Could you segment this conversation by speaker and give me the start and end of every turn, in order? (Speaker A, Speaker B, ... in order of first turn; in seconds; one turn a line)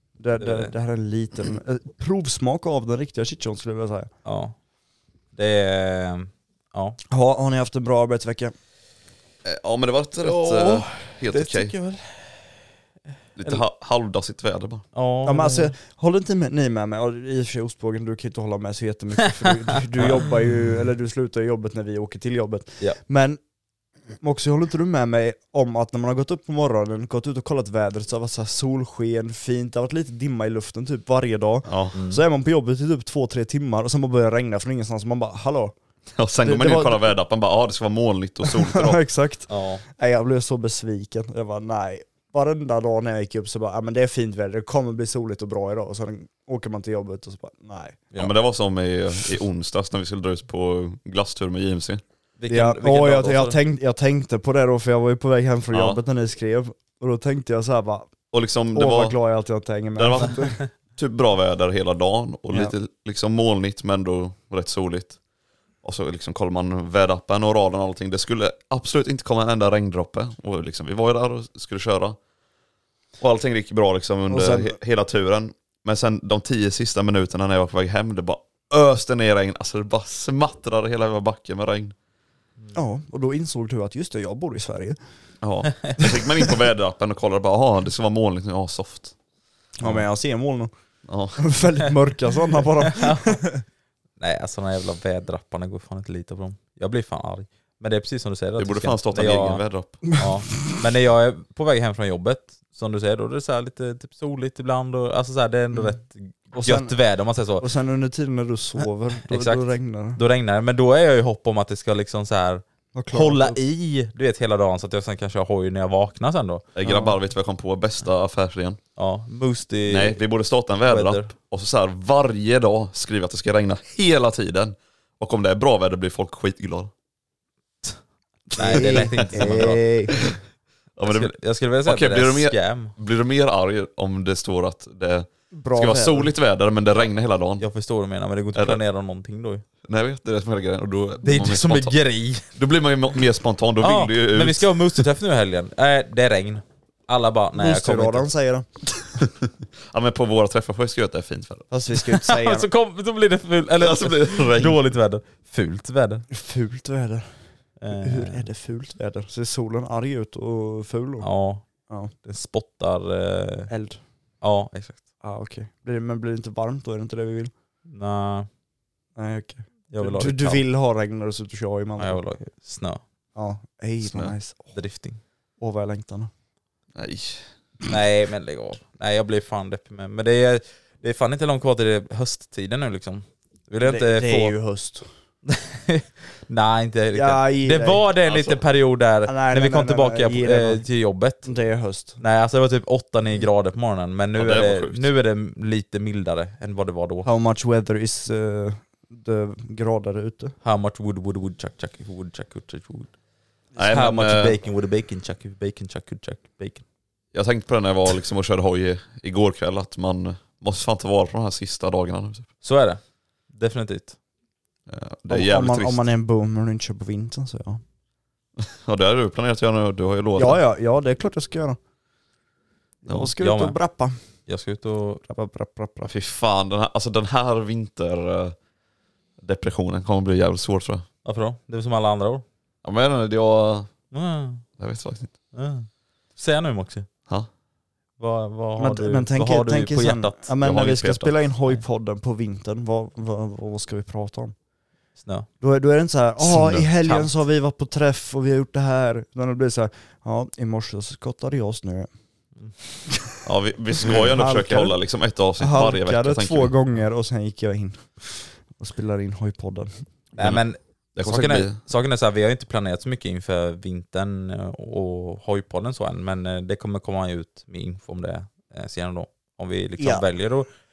Speaker A: 0.2-4.1
Speaker B: 0.4-0.7
Speaker B: 4.2-4.5
Speaker B: 5.3-7.0
Speaker A: 7.1-8.5
Speaker C: 9.4-11.7
Speaker B: 10.2-12.4
Speaker C: 13.3-14.8
Speaker B: 14.9-15.7
Speaker A: 15.2-23.4
Speaker A: 24.2-35.7
Speaker C: 31.6-31.9
Speaker B: 31.9-32.2
Speaker C: 36.1-39.0
Speaker A: 36.4-37.1
Speaker A: 38.4-48.0
Speaker B: 39.5-39.8
Speaker C: 48.2-52.0
Speaker B: 52.4-53.6
Speaker A: 52.5-58.1
Speaker C: 55.7-56.0
Speaker C: 58.3-59.2
Speaker A: 58.7-60.6
Speaker C: 59.9-65.2
Speaker C: 65.8-72.2
Speaker C: 73.2-81.9
Speaker A: 74.3-74.8
Speaker A: 82.7-85.0
Speaker C: 85.4-89.1
Speaker A: 89.8-90.7
Speaker C: 91.1-91.4
Speaker A: 91.4-93.6
Speaker B: 92.9-93.4
Speaker B: 94.2-107.7
Speaker C: 98.6-100.0
Speaker A: 106.6-106.9
Speaker A: 107.6-110.2
Speaker B: 109.3-109.6
Speaker B: 110.2-116.7
Speaker A: 112.9-113.6
Speaker C: 116.7-118.8
Speaker A: 116.8-117.1
Speaker B: 119.0-120.2
Speaker C: 119.9-126.9
Speaker B: 120.8-121.3
Speaker B: 128.5-129.9
Speaker A: 128.5-130.2
Speaker C: 128.7-129.7
Speaker C: 131.0-137.6
Speaker B: 131.0-132.9
Speaker A: 135.5-136.3
Speaker B: 137.6-139.6
Speaker C: 138.5-138.8
Speaker C: 139.8-142.0
Speaker B: 141.2-142.5
Speaker C: 142.5-145.0
Speaker B: 143.8-148.3
Speaker A: 147.6-148.7
Speaker C: 149.1-151.7
Speaker A: 151.7-152.7
Speaker B: 152.1-156.2
Speaker C: 153.8-154.9
Speaker A: 156.3-157.3
Speaker B: 157.8-158.4
Speaker A: 157.9-161.3
Speaker B: 161.2-161.6
Speaker B: 162.2-163.7
Speaker A: 163.7-164.0
Speaker B: 164.4-165.0
Speaker A: 165.2-167.5
Speaker B: 167.9-168.5
Speaker A: 169.2-172.2
Speaker B: 169.9-170.6
Speaker B: 172.0-173.0
Speaker A: 173.3-174.7
Speaker C: 174.0-174.3
Speaker B: 174.7-175.2
Speaker A: 175.6-176.3
Speaker C: 176.9-177.5
Speaker B: 177.9-184.5
Speaker A: 183.8-185.1
Speaker B: 185.5-191.5
Speaker A: 187.1-188.0
Speaker C: 188.2-188.6
Speaker A: 189.2-190.8
Speaker A: 191.4-192.2
Speaker B: 192.2-197.3
Speaker C: 194.3-195.1
Speaker A: 197.2-200.5
Speaker B: 200.6-203.1
Speaker C: 203.8-204.6
Speaker B: 203.8-206.8
Speaker C: 207.3-212.5
Speaker B: 212.6-213.0
Speaker B: 213.5-214.2
Speaker C: 214.9-216.1
Speaker A: 215.3-217.8
Speaker C: 218.6-220.6
Speaker A: 220.3-221.8
Speaker A: 223.0-224.2
Speaker B: 223.1-223.8
Speaker B: 224.5-225.2
Speaker A: 225.3-226.1
Speaker C: 226.0-228.6
Speaker C: 229.4-231.0
Speaker B: 231.2-232.4
Speaker C: 232.8-233.9
Speaker B: 234.1-234.6
Speaker C: 234.8-235.3
Speaker B: 235.5-237.1
Speaker B: 238.2-240.5
Speaker A: 238.8-244.5
Speaker C: 240.6-241.3
Speaker B: 245.2-245.5
Speaker A: 245.6-252.1
Speaker C: 246.4-246.9
Speaker B: 247.0-247.3
Speaker C: 253.4-256.7
Speaker A: 254.1-254.9
Speaker A: 255.6-259.9
Speaker B: 260.4-270.7
Speaker C: 261.1-261.8
Speaker A: 270.0-270.2